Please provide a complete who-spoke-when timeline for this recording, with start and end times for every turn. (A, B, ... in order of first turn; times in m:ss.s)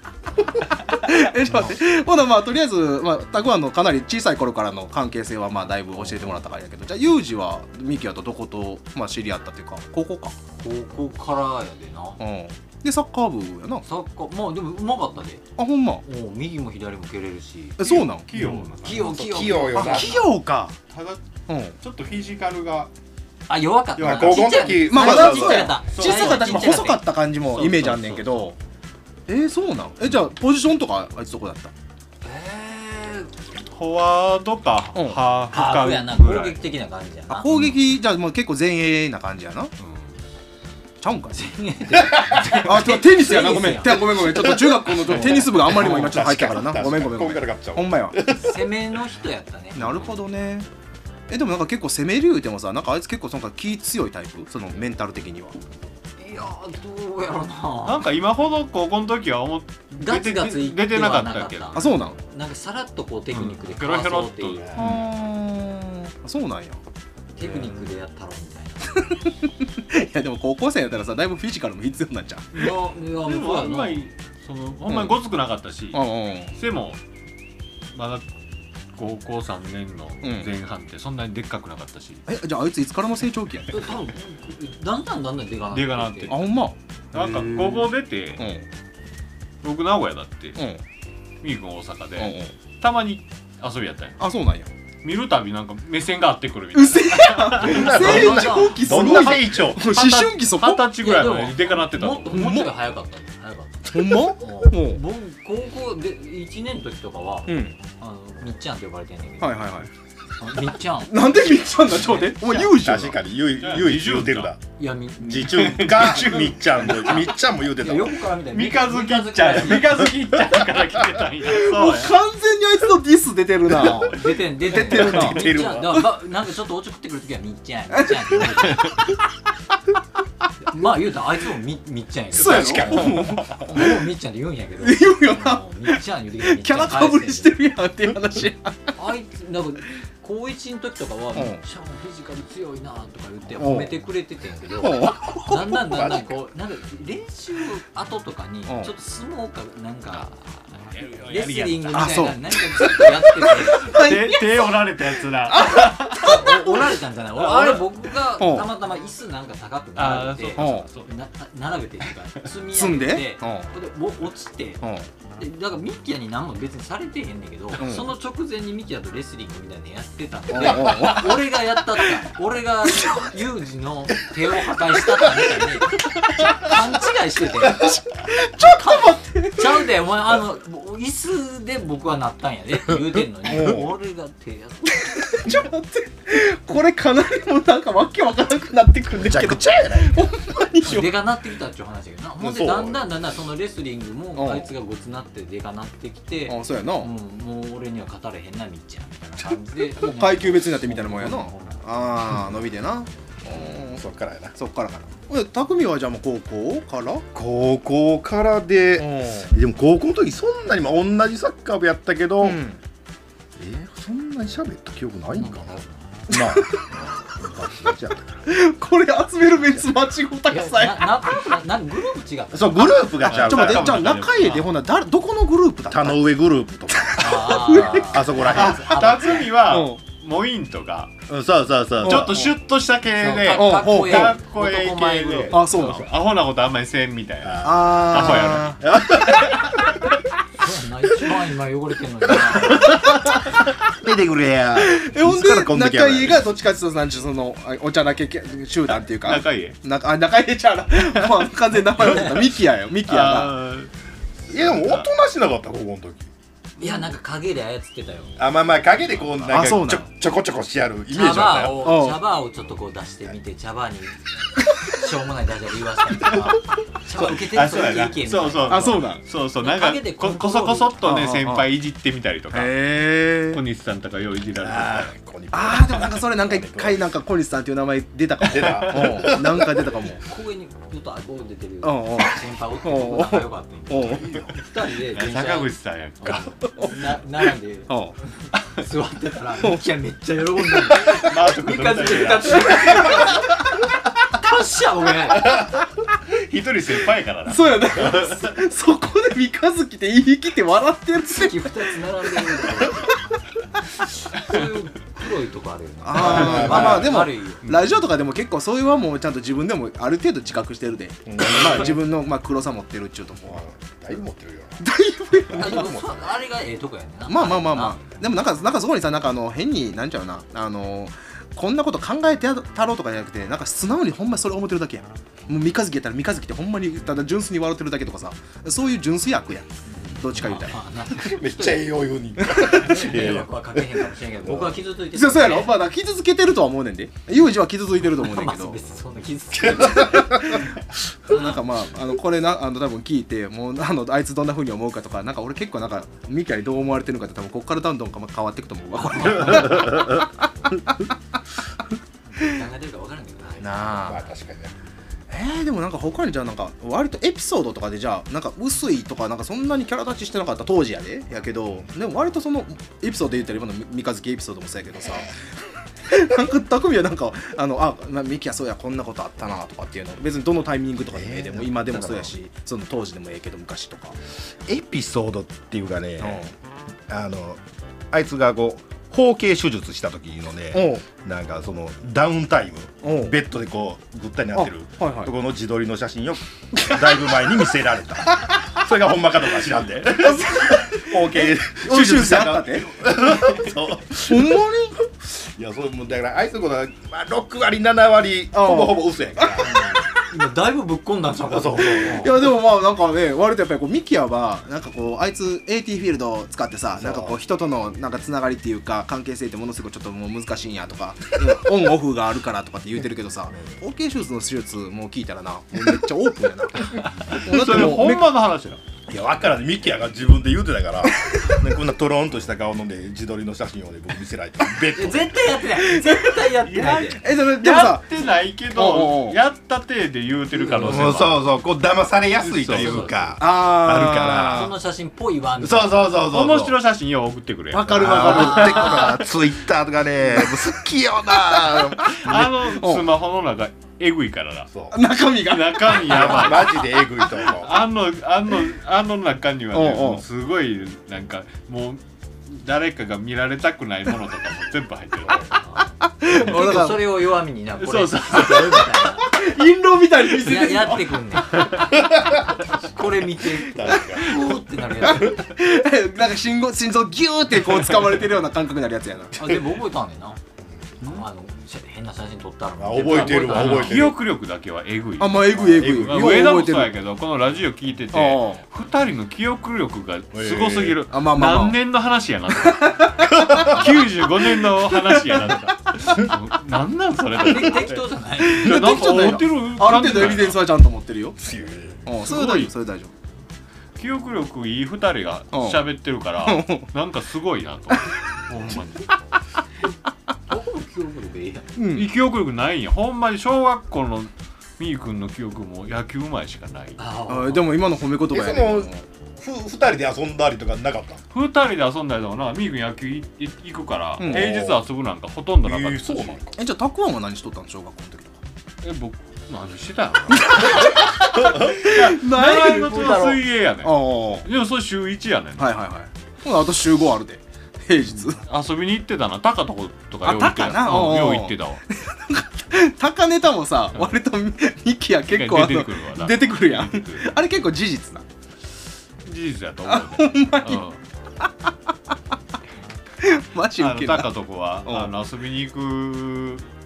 0:00.8-0:10.3 A
0:01.4-0:01.8 B
0:10.6-0:12.2 B
0:12.2-0:13.8 A
0:13.8-0:15.4 B
0:15.6-0:16.0 A
0:16.0-0:17.8 B
0:17.8-0:18.7 A
0:17.8-0:19.2 C
0:18.4-0:20.2 B
0:18.9-0:20.2 D
0:19.7-0:20.7 A
0:20.9-0:21.2 C
0:21.5-0:21.8 A
0:21.8-0:22.9 C
0:23.5-0:27.0 B
0:24.0-0:25.8 D
0:24.0-0:24.8 C
0:24.7-0:28.6 A
0:25.9-0:26.8 C
0:27.4-0:28.4 C
0:29.3-0:31.7 A
0:32.2-0:33.3 B
0:33.7-0:36.6 C
0:34.9-0:35.2 A
0:35.5-0:37.5 B
0:37.3-0:39.7 A
0:37.5-0:37.8 C
0:39.8-0:40.1 C
0:41.0-0:41.5 A
0:41.3-0:44.5 B
0:41.9-0:42.6 D
0:42.5-0:48.2 A
0:44.5-0:48.7 D
0:45.2-0:45.7 C
0:48.3-0:50.1 B
0:49.8-0:50.7 A
0:51.3-0:55.6 A
0:56.2-0:58.1 B
0:57.8-1:01.8 C
1:00.0-1:05.0 B
1:01.7-1:02.2 A
1:03.3-1:05.0 C
1:04.8-1:06.8 A
1:07.4-1:09.2 B
1:09.1-1:12.7 A
1:12.5-1:14.0 B
1:13.1-1:17.0 C
1:14.9-1:15.2 A
1:15.9-1:16.5 A
1:17.9-1:18.2 C
1:18.9-1:22.2 C
1:20.2-1:20.5 A
1:22.3-1:23.8 A
1:23.7-1:26.4 B
1:25.7-1:26.5 C
1:26.3-1:28.6 A
1:27.1-1:28.4 C
1:29.6-1:30.6 C
1:30.6-1:30.8 A
1:31.4-1:34.2 C
1:32.2-1:32.5 A
1:34.2-1:34.7 A
1:35.0-1:38.3 C
1:36.7-1:40.9 A
1:37.5-1:39.9 D
1:37.6-1:39.0 B
1:38.8-1:42.6 C
1:41.0-1:49.7 B
1:42.3-1:42.8 A
1:43.9-1:45.0 A
1:47.5-1:47.8 A
1:49.4-1:49.9 A
1:50.4-1:52.5 B
1:51.0-1:53.2 A
1:52.7-1:54.6 D
1:53.5-1:54.5 C
1:54.8-1:55.7 B
1:55.2-1:58.3 D
1:55.4-1:57.0 C
1:56.0-1:56.5 A
1:56.9-2:00.1 B
1:58.5-2:02.2 C
2:01.4-2:05.6 A
2:03.7-2:09.0 B
2:04.7-2:06.1 D
2:08.0-2:08.8 A
2:10.6-2:17.6 B
2:12.3-2:13.8 A
2:12.4-2:13.7 D
2:14.8-2:18.9 A
2:18.9-2:30.3 B
2:21.3-2:21.6 A
2:23.6-2:23.9 A
2:24.8-2:26.2 A
2:28.6-2:28.9 A
2:30.1-2:32.1 C
2:31.2-2:34.1 B
2:31.9-2:34.6 A
2:33.8-2:36.4 C
2:35.5-2:36.5 A
2:35.8-2:44.8 B
2:37.4-2:37.8 C
2:38.4-2:38.7 A
2:40.0-2:41.1 C
2:40.6-2:40.9 A
2:42.7-2:43.7 A
2:44.8-2:45.1 A
2:45.4-3:05.6 B
2:47.8-2:48.1 A
2:50.5-2:51.5 A
2:52.9-2:53.3 A
2:57.6-2:59.9 A
3:03.4-3:03.9 D
3:03.5-3:03.9 A
3:05.3-3:11.2 A
3:09.1-3:10.3 D
3:10.8-3:20.9 B
3:12.4-3:13.0 D
3:14.3-3:14.7 A
3:16.4-3:17.1 A
3:19.9-3:24.0 A
3:20.9-3:21.8 C
3:23.5-3:24.5 D
3:24.6-3:27.2 A
3:27.3-3:32.6 D
3:29.0-3:29.6 A
3:32.4-3:32.8 A
3:33.6-3:35.7 D
3:35.3-3:36.4 B
3:36.3-3:38.5 D
3:36.3-3:36.7 A
3:38.4-3:41.5 A
3:40.5-3:43.1 B
3:42.5-3:44.2 D
3:43.2-3:44.7 C
3:43.3-3:46.2 A
3:45.9-3:48.9 D
3:46.9-3:48.4 A
3:47.2-3:49.6 B
3:48.4-3:51.1 C
3:49.6-3:50.0 A
3:51.3-3:52.5 D
3:52.0-3:58.9 C
3:52.0-3:52.5 A
3:53.2-3:55.6 B
3:53.5-3:54.4 A
3:55.5-3:56.1 A
3:57.4-3:59.9 D
3:57.6-3:58.8 A
4:00.6-4:03.3 B
4:02.5-4:06.5 D
4:04.8-4:13.5 A
4:09.1-4:09.8 C
4:12.0-4:12.4 C
4:13.0-4:13.9 C
4:14.5-4:15.1 C
4:14.5-4:16.3 D
4:16.8-4:18.4 B
4:18.4-4:21.9 D
4:19.2-4:19.5 B
4:19.5-4:20.0 A
4:21.1-4:24.2 B
4:21.7-4:22.2 A
4:24.8-4:29.0 B
4:27.2-4:32.8 C
4:28.6-4:29.2 A
4:29.6-4:31.0 B
4:31.0-4:31.7 A
4:32.5-4:33.6 A
4:33.5-4:35.1 C
4:34.6-4:37.1 D
4:35.5-4:40.2 A
4:38.4-4:39.9 D
4:39.0-4:39.2 C
4:39.9-4:45.7 B
4:41.8-4:44.5 A
4:45.1-4:46.6 C
4:46.2-4:53.6 B
4:47.9-4:48.1 A
4:49.6-4:49.9 A
4:51.0-4:53.4 C
4:54.2-4:55.6 B
4:55.4-4:55.7 C
4:56.3-4:58.5 C
4:57.4-5:03.0 A
5:01.2-5:03.2 B
5:04.3-5:07.7 B
5:06.0-5:13.6 A
5:06.2-5:07.1 D
5:06.2-5:07.0 C
5:07.6-5:08.0 C
5:11.3-5:12.0 D
5:13.5-5:14.8 D
5:14.8-5:16.0 A
5:15.3-5:16.3 D
5:15.5-5:18.0 B
5:17.3-5:30.8 A
5:30.0-5:35.8 B
5:31.1-5:34.8 D
5:35.1-5:38.8 A
5:38.1-5:40.6 B
5:39.6-5:40.6 D
5:39.8-5:40.7 A
5:41.2-5:50.7 A
5:49.5-5:50.2 D
5:52.3-5:54.3 B
5:53.6-5:54.2 A
5:54.0-5:54.7 D
5:55.3-6:05.3 A
6:06.0-6:14.2 A
6:11.1-6:12.3 D
6:14.6-6:16.5 D
6:16.2-6:16.5 A
6:17.1-6:40.0 D
6:20.7-6:21.0 A
6:23.0-6:23.3 A
6:24.5-6:25.3 A
6:30.1-6:32.9 A
6:34.2-6:35.0 A
6:38.5-6:39.8 A
6:39.6-6:42.4 B
6:41.4-6:42.4 D
6:42.0-6:58.3 A
6:47.0-6:47.4 D
6:57.0-6:58.8 C
6:59.1-7:05.6 D
7:04.9-7:07.2 B
7:05.8-7:06.4 A
7:06.6-7:11.4 C
7:07.1-7:08.1 A
7:08.7-7:09.4 A
7:10.6-7:11.1 A
7:10.8-7:14.7 D
7:12.4-7:13.3 C
7:12.7-7:13.2 B
7:13.4-7:14.7 A
7:14.0-7:16.3 B
7:15.6-7:16.8 D
7:16.2-7:19.2 C
7:17.7-7:19.2 A
7:17.8-7:22.4 D
7:18.8-7:19.1 B
7:20.3-7:20.6 A
7:21.4-7:23.1 A
7:22.1-7:24.7 C
7:24.7-7:25.0 D
7:24.9-7:26.8 A
7:25.4-7:35.6 C
7:25.9-7:27.8 D
7:29.7-7:30.2 A
7:35.6-7:39.3 B
7:36.0-7:37.0 A
7:37.8-7:39.1 C
7:39.3-7:41.2 A
7:40.3-7:41.9 B
7:41.7-7:45.4 D
7:42.7-7:45.4 B
7:45.0-7:49.4 A
7:49.3-7:50.4 B
7:51.0-7:54.1 B
7:52.8-7:54.2 D
7:53.0-8:10.6 C
7:55.2-7:56.9 A
7:55.8-7:56.3 D
7:58.1-7:58.6 A
8:00.3-8:01.0 D
8:01.1-8:01.8 A
8:02.6-8:04.0 A
8:03.3-8:04.0 D
8:04.9-8:05.6 A
8:07.3-8:09.0 B
8:08.4-8:11.4 A
8:11.4-8:12.0 D
8:12.0-8:13.1 A
8:12.2-8:12.7 C
8:14.0-8:19.1 C
8:15.5-8:15.9 A
8:16.4-8:16.9 A
8:20.5-8:21.8 B
8:21.8-8:22.1 A
8:21.9-8:27.0 C
8:27.0-8:27.7 B
8:27.3-8:29.0 A
8:28.3-8:31.2 D
8:31.3-8:36.4 C
8:34.2-8:34.6 A
8:34.2-8:34.8 D
8:35.6-8:36.6 D
8:36.6-8:38.4 A
8:38.8-8:45.8 C
8:40.3-8:44.5 A
8:41.3-8:41.8 D
8:45.6-8:48.4 A
8:48.1-8:51.8 C
8:50.2-8:58.2 A
8:55.3-8:57.4 C
8:59.2-9:01.0 C
8:59.8-9:00.8 A
9:01.4-9:01.9 A
9:03.2-9:04.3 A
9:03.7-9:06.6 C
9:04.8-9:05.1 A